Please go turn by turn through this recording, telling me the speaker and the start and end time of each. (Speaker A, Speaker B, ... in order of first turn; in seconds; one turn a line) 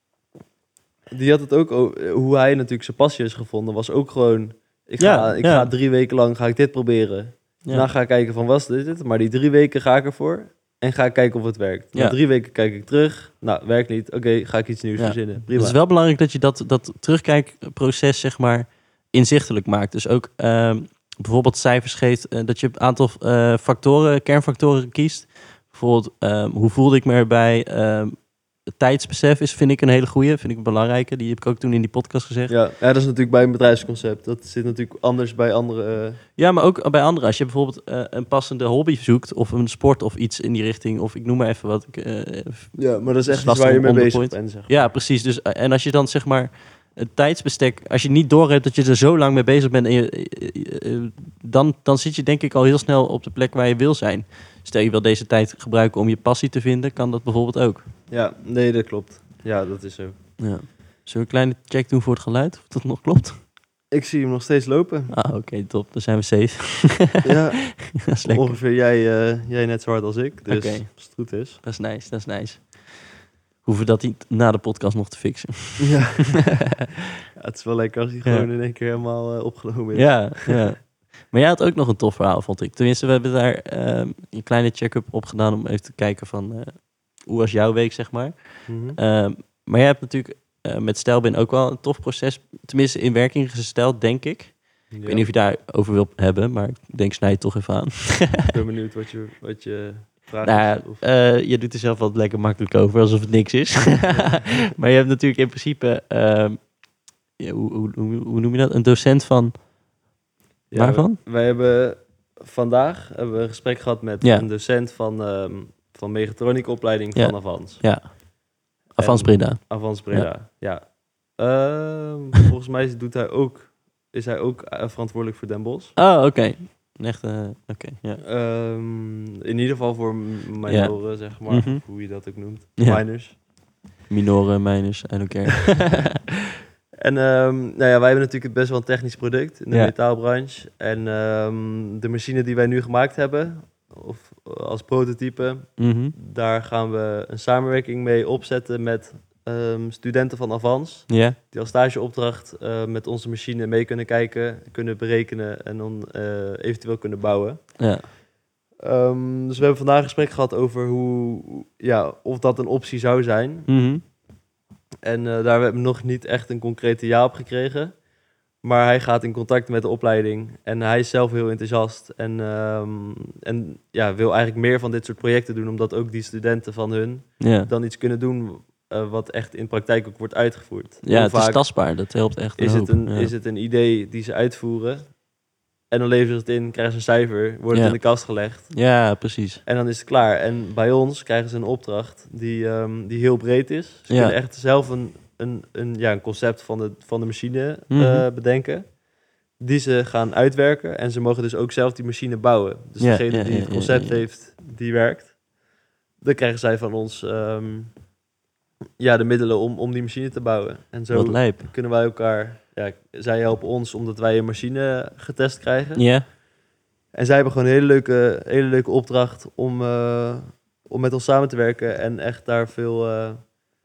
Speaker A: 1.1-15.8
Speaker B: 5.0-5.7
Speaker B: 7.6-7.9
Speaker B: 15.0-32.6
Speaker A: 32.5-36.2
Speaker B: 36.4-57.9
Speaker A: 42.8-44.9
Speaker A: 58.1-60.4
Speaker B: 60.4-63.4
Speaker A: 63.9-65.2
Speaker B: 65.1-68.5
Speaker A: 67.2-71.6
Speaker B: 70.5-76.2
Speaker A: 75.9-76.3
Speaker A: 77.4-80.7
Speaker B: 79.9-98.4
Speaker A: 88.7-89.0
Speaker A: 94.9-95.3
Speaker A: 98.5-101.1
Speaker B: 100.4-109.7
Speaker A: 104.1-104.7
Speaker A: 110.7-118.1
Speaker B: 110.7-111.2
Speaker B: 117.2-118.2
Speaker B: 118.8-120.3
Speaker A: 118.9-126.0
Speaker B: 126.0-128.2
Speaker A: 128.2-133.4
Speaker B: 130.7-133.5
Speaker B: 134.1-136.1
Speaker A: 137.0-158.0
Speaker B: 145.8-146.2
Speaker B: 151.1-151.4
Speaker B: 157.8-158.1
Speaker A: 158.8-163.7
Speaker B: 163.7-164.0
Speaker A: 165.0-168.0
Speaker A: 168.6-182.0
Speaker B: 177.4-177.7
Speaker B: 181.0-183.3
Speaker A: 182.6-185.3
Speaker A: 185.9-199.0
Speaker B: 187.7-189.6
Speaker B: 194.1-194.4
Speaker B: 197.9-198.3
Speaker A: 199.6-205.4
Speaker B: 203.0-204.2
Speaker A: 206.2-208.1
Speaker A: 209.0-216.3
Speaker B: 211.1-211.7
Speaker B: 215.9-216.3
Speaker A: 217.1-223.6